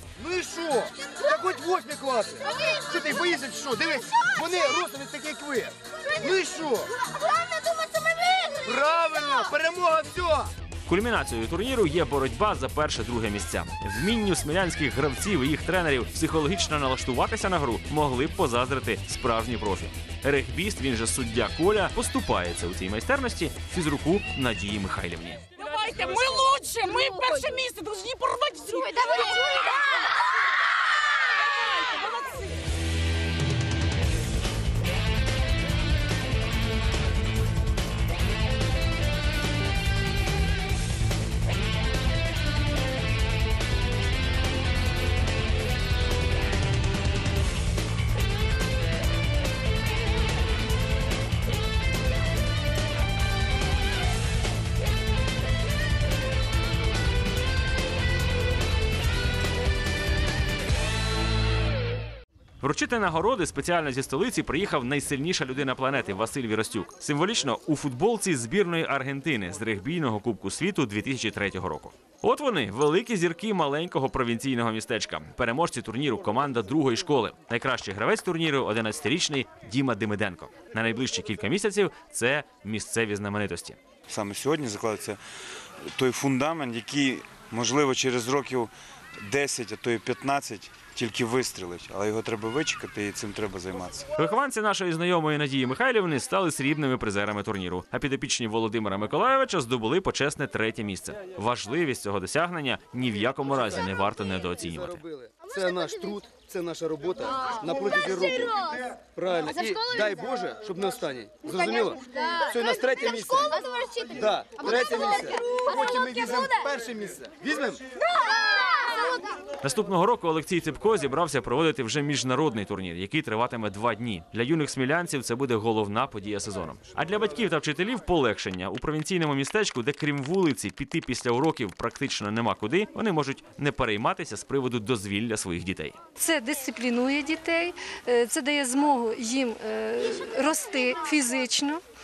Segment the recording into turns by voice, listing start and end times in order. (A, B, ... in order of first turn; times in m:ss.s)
0:00.2-0:06.9 A
0:08.5-0:10.5 A
0:10.8-0:25.4 B
0:25.7-0:29.5 C
1:02.6-1:23.8 B
1:24.1-1:25.2 D
1:25.9-1:34.1 D
1:34.2-1:45.0 B
1:44.7-1:57.8 A
1:59.6-2:16.0 B
2:16.2-2:21.8 E